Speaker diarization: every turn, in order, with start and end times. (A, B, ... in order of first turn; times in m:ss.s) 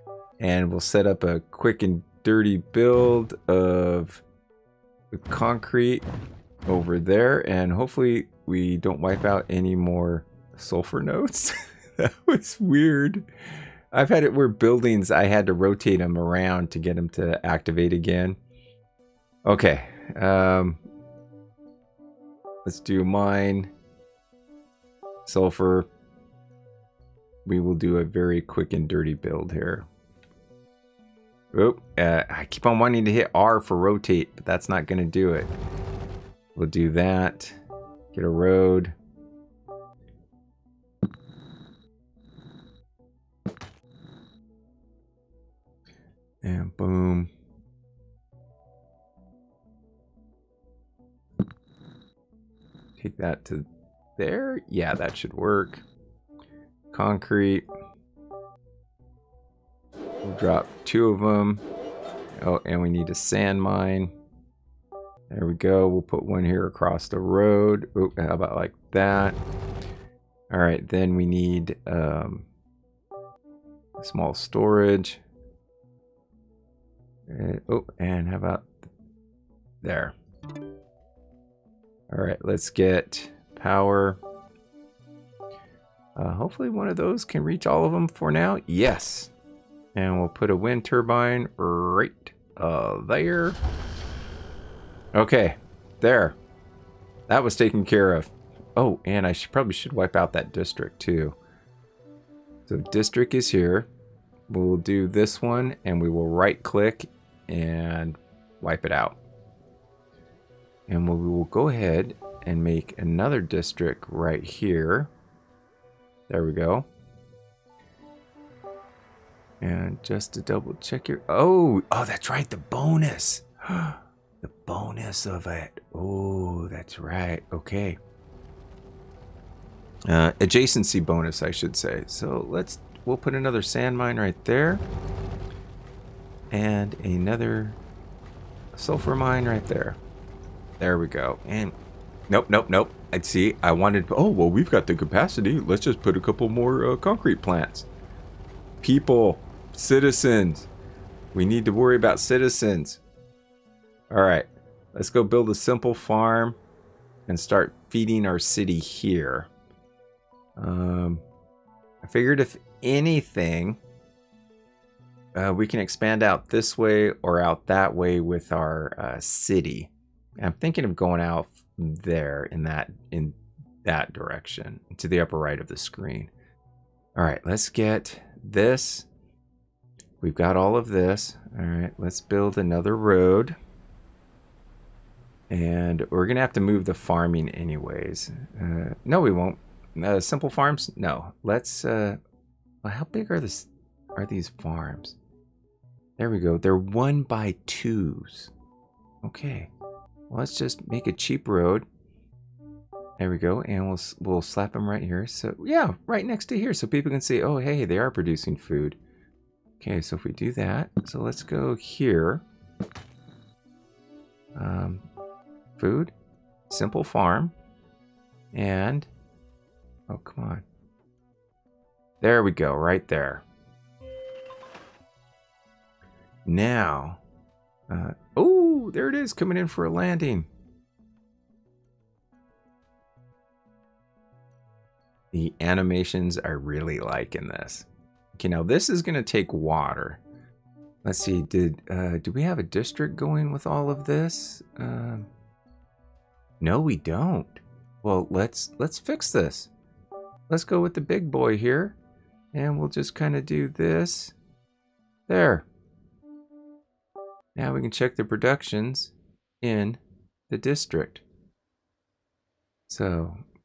0:00.4-0:04.2 A
0:05.1-0:06.0 A
0:06.6-0:13.2 A
0:13.9-0:18.4 A
0:19.4-0:20.8 A
0:22.6-0:23.7 A
0:25.2-0:25.9 A
0:27.4-0:29.9 A
0:31.5-0:35.5 A
0:36.5-0:37.6 A
0:38.1-0:38.9 A
0:46.4-0:47.3 A
0:53.0-0:53.6 A
0:54.2-0:55.8 A
0:56.9-0:57.6 A
1:00.2-1:01.6 A
1:02.4-1:04.1 A
1:05.3-1:09.4 A
1:10.5-1:12.4 A
1:14.0-1:15.2 A
1:17.3-1:18.7 A
1:19.8-1:20.1 A
1:22.1-1:24.2 A
1:26.2-1:29.3 A
1:29.9-1:33.6 A
1:35.1-1:36.4 A
1:37.3-1:41.4 A
1:42.7-1:43.9 A
1:44.5-1:49.2 A
1:50.9-1:55.1 A
1:56.3-1:56.9 A
1:59.6-2:08.0 A
2:10.1-2:14.8 A
2:16.5-2:17.8 A
2:18.7-2:20.0 A
2:20.8-2:21.7 A
2:22.3-2:27.9 A
2:28.8-2:30.7 A
2:31.3-2:33.0 A
2:34.1-2:36.6 A
2:37.3-2:39.5 A
2:40.6-2:41.2 A
2:42.0-2:43.8 A
2:45.3-2:56.3 A
2:57.2-2:59.1 A
3:00.2-3:03.6 A
3:05.5-3:12.2 A
3:12.8-3:15.2 A
3:16.2-3:18.5 A
3:19.2-3:19.7 A
3:20.3-3:21.8 A
3:23.2-3:29.0 A
3:29.8-3:32.4 A
3:34.6-3:35.0 A
3:35.8-3:36.1 A
3:36.7-3:37.5 A
3:38.5-3:39.1 A
3:40.1-3:40.6 A
3:42.2-3:43.4 A
3:46.4-3:47.2 A
3:47.9-3:50.5 A
3:55.3-4:00.2 A
4:01.0-4:05.3 A
4:06.6-4:09.7 A
4:10.5-4:12.0 A
4:12.5-4:14.3 A
4:15.3-4:15.6 A
4:17.5-4:21.2 A
4:22.9-4:23.4 A